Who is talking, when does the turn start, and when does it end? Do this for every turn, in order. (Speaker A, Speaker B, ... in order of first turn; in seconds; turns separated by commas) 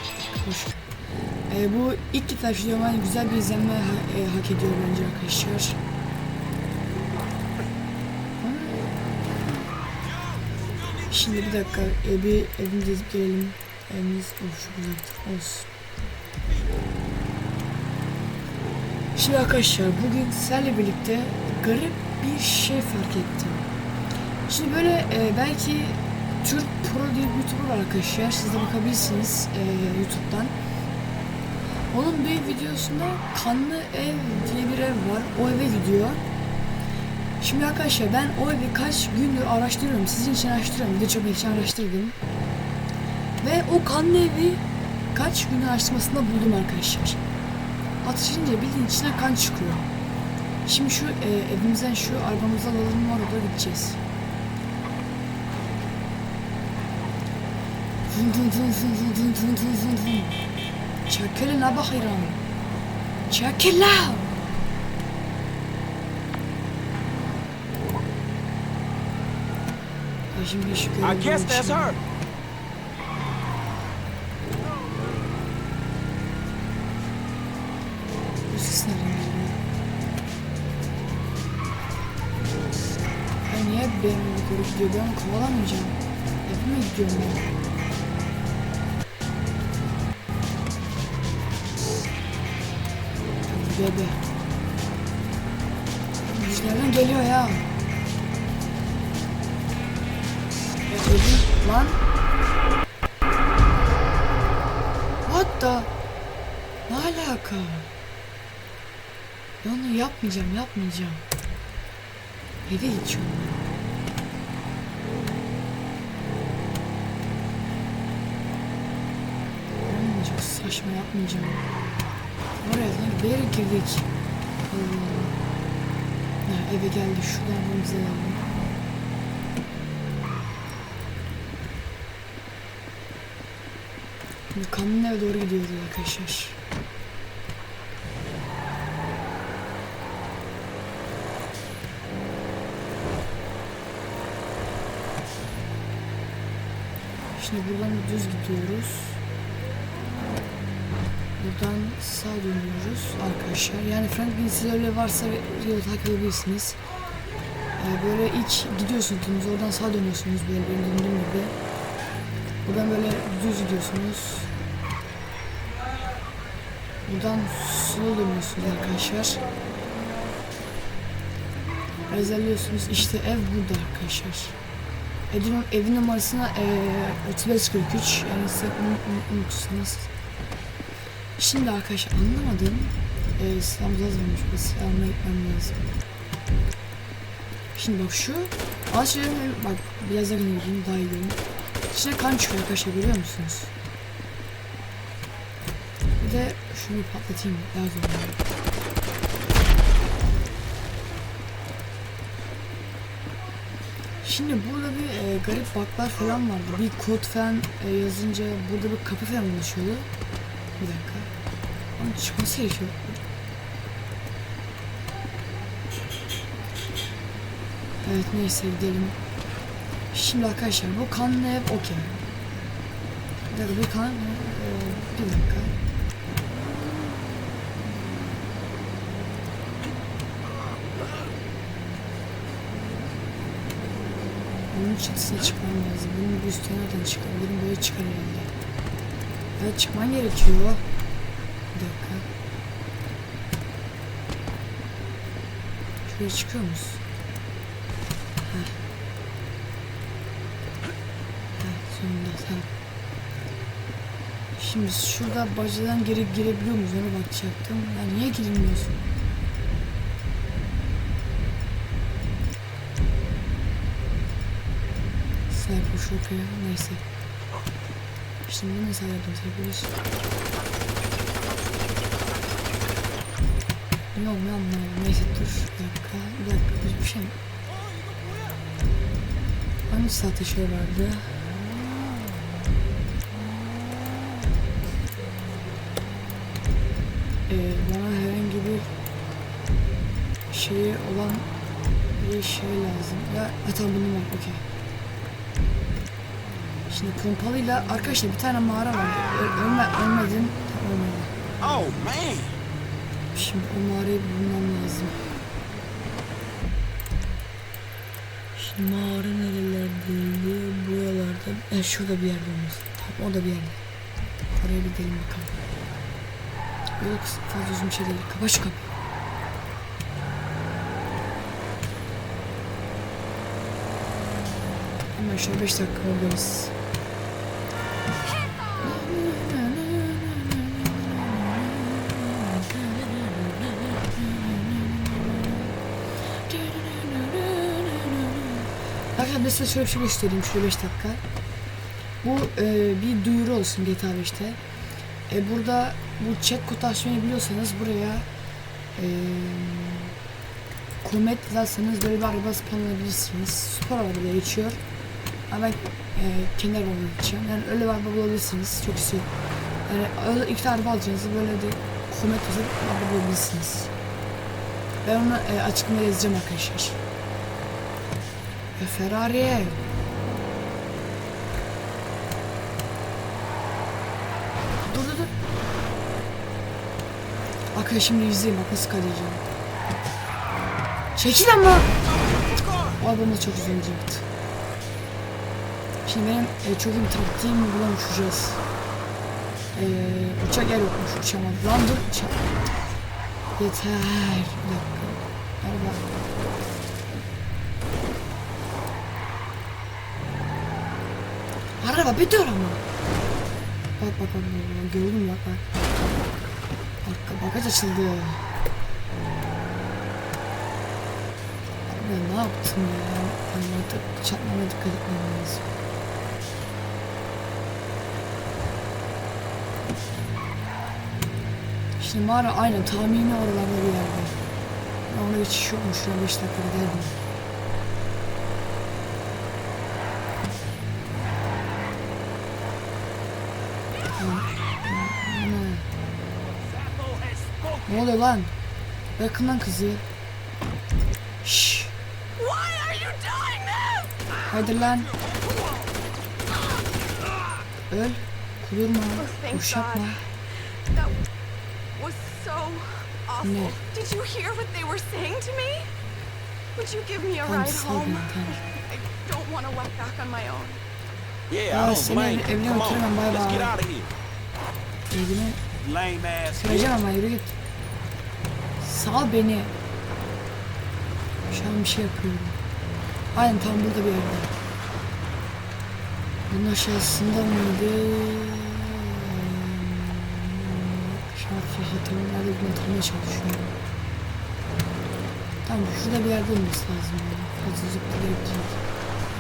Speaker A: 0.3-0.9, Speaker A: 1.5-5.8, Speaker A: 8.4-8.9, Speaker B: 10.6-11.1, Speaker A: 11.1-15.7, Speaker A: 19.1-23.7, Speaker A: 24.5-30.5, Speaker A: 31.9-36.2, Speaker A: 37.4-42.2, Speaker A: 43.4-47.2, Speaker A: 48.0-49.9, Speaker A: 50.7-54.0, Speaker A: 58.1-60.4, Speaker A: 61.1-62.4, Speaker A: 63.3-64.3, Speaker A: 70.3-72.0, Speaker B: 71.0-72.0, Speaker A: 78.5-79.6, Speaker A: 83.5-87.5, Speaker A: 93.5-94.2, Speaker A: 96.2-97.7, Speaker A: 100.9-102.0, Speaker A: 105.3-105.9, Speaker A: 106.9-107.9, Speaker A: 109.6-111.2, Speaker A: 112.7-113.6, Speaker A: 119.8-121.6, Speaker A: 122.6-124.1, Speaker A: 124.7-125.4, Speaker A: 126.4-128.5, Speaker A: 134.5-136.6, Speaker A: 147.3-149.2, Speaker A: 151.4-156.8, Speaker A: 157.8-161.5, Speaker A: 162.6-164.5, Speaker A: 167.1-169.5, Speaker A: 172.1-174.6, Speaker A: 175.3-180.1, Speaker A: 181.4-185.9, Speaker A: 187.8-191.4, Speaker A: 191.9-193.7, Speaker A: 196.2-198.4, Speaker A: 204.2-210.1, Speaker A: 210.8-211.3, Speaker A: 212.0-213.2, Speaker A: 218.0-219.2, Speaker A: 220.1-222.1, Speaker A: 223.5-225.8, Speaker A: 234.7-238.5, Speaker A: 239.6-240.8, Speaker A: 241.7-242.3, Speaker A: 246.1-247.0, Speaker A: 248.4-248.8, Speaker A: 251.6-252.7, Speaker A: 254.5-259.0, Speaker A: 265.5-267.0, Speaker A: 268.4-269.9, Speaker A: 274.1-277.4, Speaker B: 278.0-278.6, Speaker A: 279.9-281.5, Speaker A: 287.5-288.9, Speaker A: 290.5-291.5, Speaker A: 292.2-294.6, Speaker A: 296.9-301.3, Speaker B: 301.6-302.6, Speaker A: 303.3-305.2, Speaker A: 308.5-313.8, Speaker A: 314.5-315.6, Speaker A: 317.0-318.9, Speaker A: 325.1-326.7, Speaker A: 328.8-335.7, Speaker A: 336.4-341.2, Speaker A: 342.2-344.6, Speaker A: 345.3-348.3, Speaker A: 348.9-350.1, Speaker A: 351.0-354.8, Speaker A: 355.5-359.3, Speaker A: 359.9-363.9, Speaker A: 365.0-367.0, Speaker A: 368.8-369.8, Speaker A: 374.9-375.3, Speaker A: 377.7-379.4, Speaker A: 381.1-381.9, Speaker B: 382.2-382.9, Speaker A: 383.0-384.2, Speaker A: 386.0-388.6, Speaker A: 389.7-392.5, Speaker A: 393.6-396.0, Speaker A: 401.8-402.8, Speaker A: 404.0-405.6, Speaker A: 407.0-408.5, Speaker A: 411.9-415.6, Speaker A: 422.0-424.4, Speaker A: 425.1-427.1, Speaker A: 434.1-435.8, Speaker B: 436.6-437.9, Speaker A: 437.9-438.5, Speaker A: 439.2-440.0, Speaker A: 441.4-441.9, Speaker C: 442.4-444.1, Speaker A: 444.4-445.1, Speaker A: 447.9-450.2, Speaker C: 449.2-450.1, Speaker C: 450.9-451.2, Speaker C: 452.0-455.9, Speaker A: 453.4-453.8, Speaker C: 456.8-460.8, Speaker A: 457.4-458.6, Speaker B: 461.5-464.1, Speaker A: 461.7-463.8, Speaker A: 465.1-465.6, Speaker B: 465.8-466.9, Speaker A: 466.5-467.5, Speaker A: 468.8-469.7, Speaker A: 471.5-472.6, Speaker A: 473.3-474.5, Speaker A: 476.5-483.8, Speaker A: 485.6-488.8